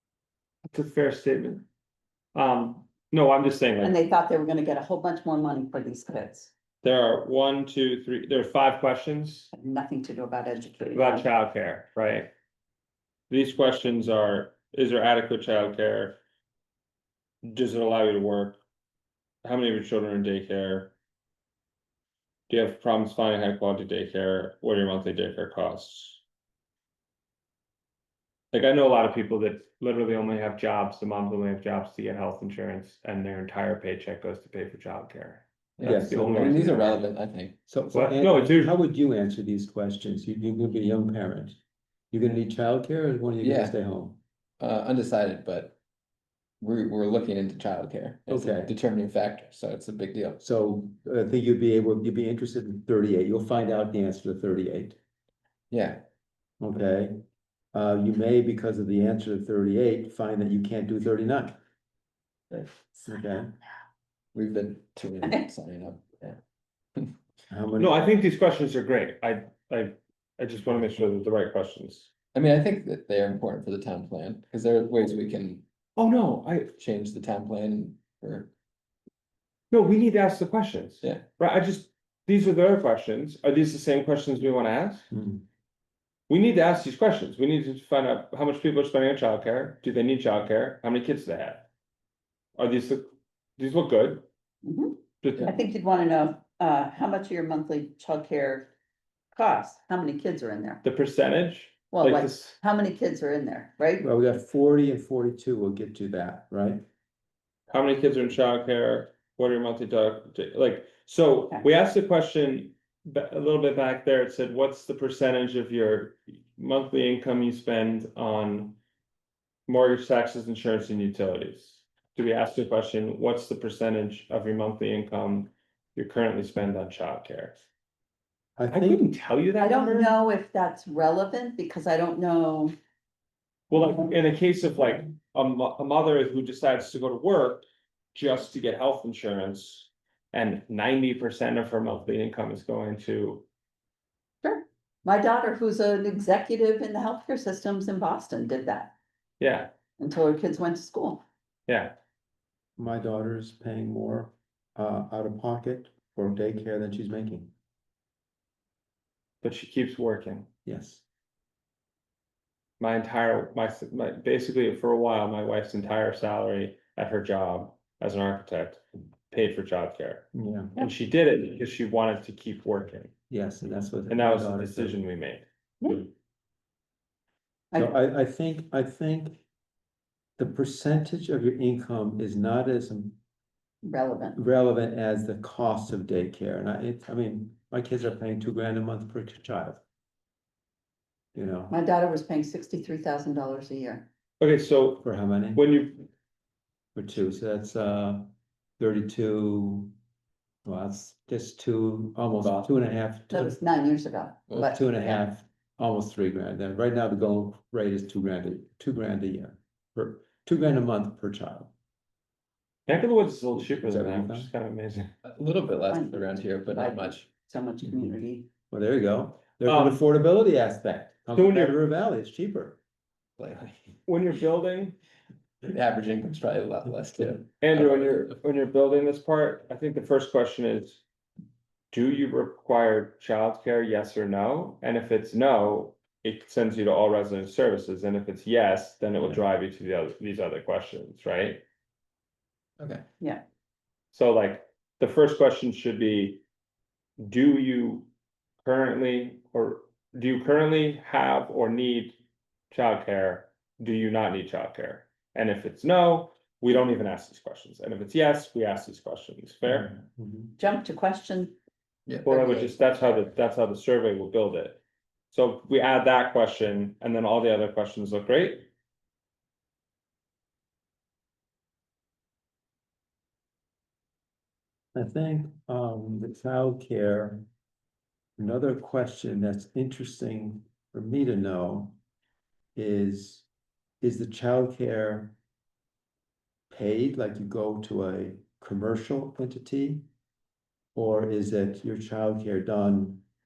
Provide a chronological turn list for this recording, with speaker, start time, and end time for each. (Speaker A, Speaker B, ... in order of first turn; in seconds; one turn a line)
Speaker A: 0.7-1.6
Speaker A: 2.3-3.9
Speaker B: 3.8-6.5
Speaker A: 6.8-9.5
Speaker B: 9.5-11.2
Speaker A: 10.9-12.3
Speaker A: 13.3-16.2
Speaker A: 17.4-18.6
Speaker A: 19.4-20.9
Speaker A: 22.5-26.2
Speaker A: 28.5-37.0
Speaker C: 35.8-37.5
Speaker D: 35.8-37.1
Speaker D: 37.7-41.6
Speaker A: 37.9-38.8
Speaker D: 42.1-44.2
Speaker C: 43.4-43.7
Speaker C: 44.6-45.8
Speaker C: 46.6-50.4
Speaker D: 48.3-48.7
Speaker D: 50.4-55.0
Speaker C: 55.7-56.0
Speaker D: 56.6-57.2
Speaker D: 57.7-61.6
Speaker D: 62.9-63.5
Speaker C: 64.3-66.4
Speaker D: 67.5-68.0
Speaker A: 67.8-72.1
Speaker C: 72.3-75.6
Speaker A: 76.0-76.7
Speaker C: 76.7-78.5
Speaker A: 79.7-85.1
Speaker D: 85.1-85.4
Speaker A: 86.3-91.7
Speaker A: 92.6-94.2
Speaker B: 94.6-98.7
Speaker A: 95.2-95.5
Speaker B: 99.3-100.8
Speaker A: 100.8-102.6
Speaker B: 101.9-104.0
Speaker D: 104.0-106.8
Speaker A: 107.7-118.8
Speaker A: 119.7-127.6
Speaker D: 128.6-129.0
Speaker A: 128.7-130.1
Speaker B: 129.6-132.8
Speaker A: 133.7-143.4
Speaker B: 144.4-148.9
Speaker A: 149.4-149.7
Speaker B: 150.0-151.2
Speaker A: 151.7-151.9
Speaker D: 152.8-157.5
Speaker A: 159.4-160.5
Speaker D: 160.6-161.0
Speaker A: 162.8-173.1
Speaker D: 170.3-170.8
Speaker D: 173.3-175.0
Speaker A: 174.1-176.0
Speaker D: 177.7-179.4
Speaker D: 180.4-183.2
Speaker B: 183.8-184.4
Speaker D: 184.3-189.8
Speaker D: 191.3-191.8
Speaker B: 191.7-194.1
Speaker A: 194.4-196.1
Speaker D: 195.0-195.6
Speaker D: 196.9-199.9
Speaker D: 200.6-203.6
Speaker C: 202.4-202.7
Speaker B: 203.3-205.2
Speaker D: 204.5-211.7
Speaker A: 212.9-215.1
Speaker D: 213.6-214.5
Speaker C: 215.2-217.2
Speaker B: 215.9-218.5
Speaker D: 218.7-222.8
Speaker A: 219.6-220.0
Speaker A: 221.3-221.8
Speaker C: 223.4-223.9
Speaker A: 224.1-225.0
Speaker C: 225.6-228.3
Speaker A: 227.6-231.0
Speaker A: 231.9-241.6
Speaker A: 244.1-246.4
Speaker A: 247.2-248.1
Speaker A: 248.6-252.2
Speaker A: 252.7-259.9
Speaker D: 259.7-260.5
Speaker B: 260.6-261.6
Speaker C: 262.1-262.7
Speaker A: 262.2-264.8
Speaker A: 265.3-268.7
Speaker D: 274.9-277.5
Speaker D: 278.4-281.9
Speaker D: 282.8-283.4
Speaker D: 284.0-285.4
Speaker D: 286.7-290.1
Speaker D: 290.9-293.2